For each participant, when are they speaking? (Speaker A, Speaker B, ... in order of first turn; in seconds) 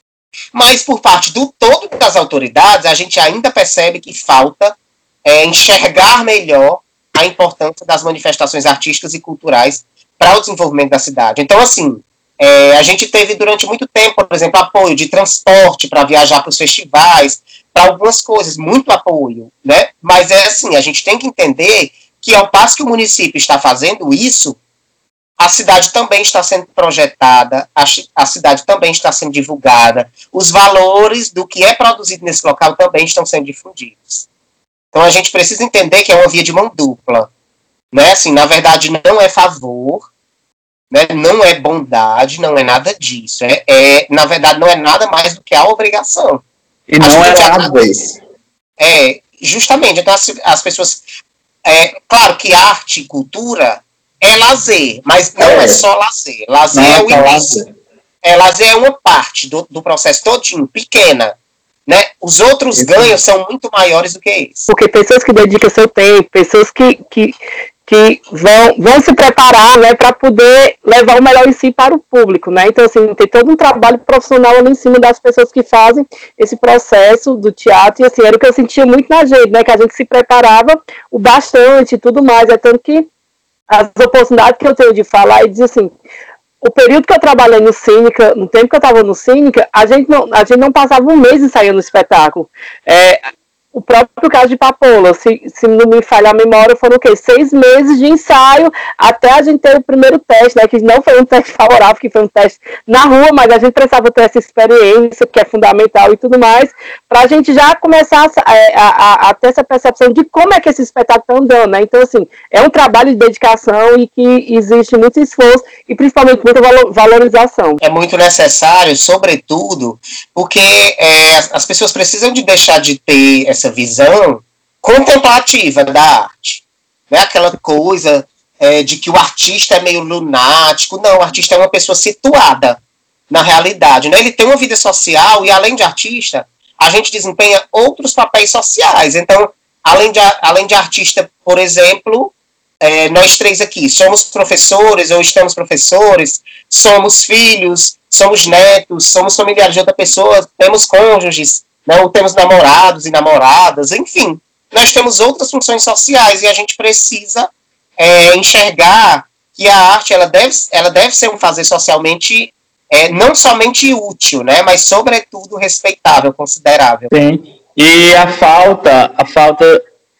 Speaker A: 0.5-24.6, 25.4-34.3, 34.9-37.3, 37.9-40.1, 40.9-46.4, 47.0-47.8, 48.8-51.0, 51.6-57.6, 58.2-64.7, 117.8-167.1
Speaker B: 46.9-48.1, 55.4-55.8, 56.7-57.7, 62.7-63.2, 167.1-169.8
Speaker C: 64.7-67.3, 67.9-83.1, 83.7-85.9, 86.6-93.2, 93.7-117.8